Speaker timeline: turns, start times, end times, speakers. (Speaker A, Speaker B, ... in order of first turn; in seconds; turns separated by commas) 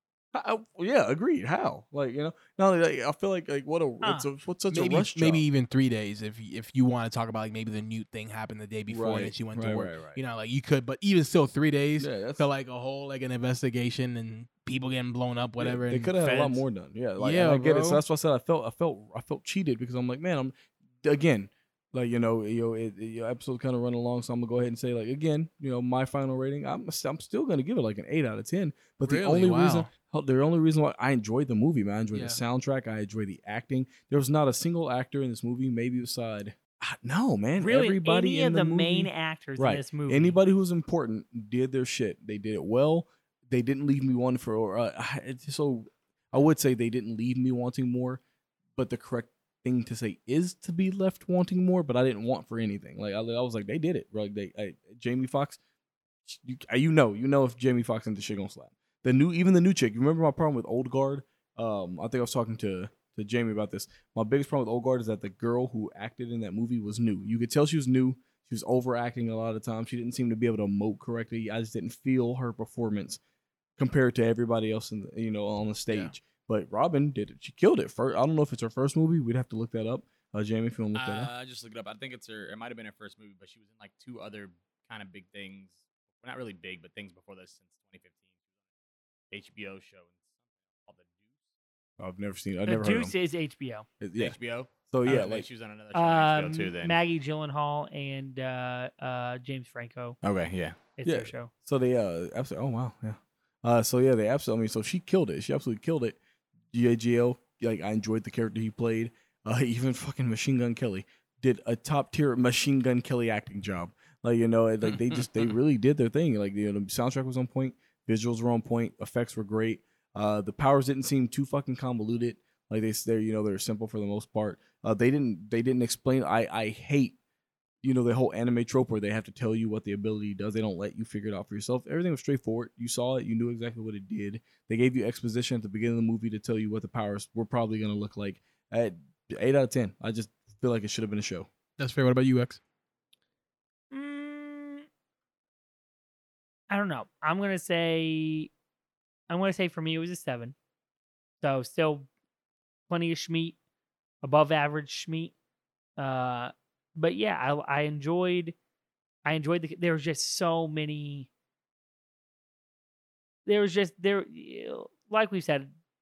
Speaker A: 0.3-5.4, Speaker B: 4.0-4.3, Speaker C: 4.7-16.6, Speaker A: 8.9-10.2, Speaker A: 12.0-12.5, Speaker A: 15.6-48.2, Speaker C: 17.2-18.0, Speaker C: 29.0-29.9, Speaker C: 32.1-32.4, Speaker B: 37.6-40.4, Speaker A: 48.8-55.6, Speaker A: 56.2-73.2, Speaker A: 73.8-81.3, Speaker C: 75.9-76.1, Speaker D: 80.9-88.2, Speaker D: 89.3-90.2, Speaker D: 90.8-91.2, Speaker A: 92.0-93.1, Speaker B: 92.7-93.8, Speaker A: 94.0-94.3, Speaker D: 94.2-97.0, Speaker A: 94.9-95.5, Speaker B: 95.9-100.2, Speaker D: 100.2-100.8, Speaker B: 101.0-101.5, Speaker A: 101.0-106.2, Speaker A: 106.7-127.2, Speaker D: 114.8-115.5, Speaker A: 127.8-141.5, Speaker C: 141.8-142.6, Speaker B: 143.9-144.8, Speaker B: 146.7-148.5, Speaker B: 149.3-150.5, Speaker B: 151.4-152.1, Speaker B: 152.9-153.6, Speaker B: 154.2-155.3, Speaker B: 156.0-158.6, Speaker B: 159.2-161.3, Speaker B: 163.4-165.7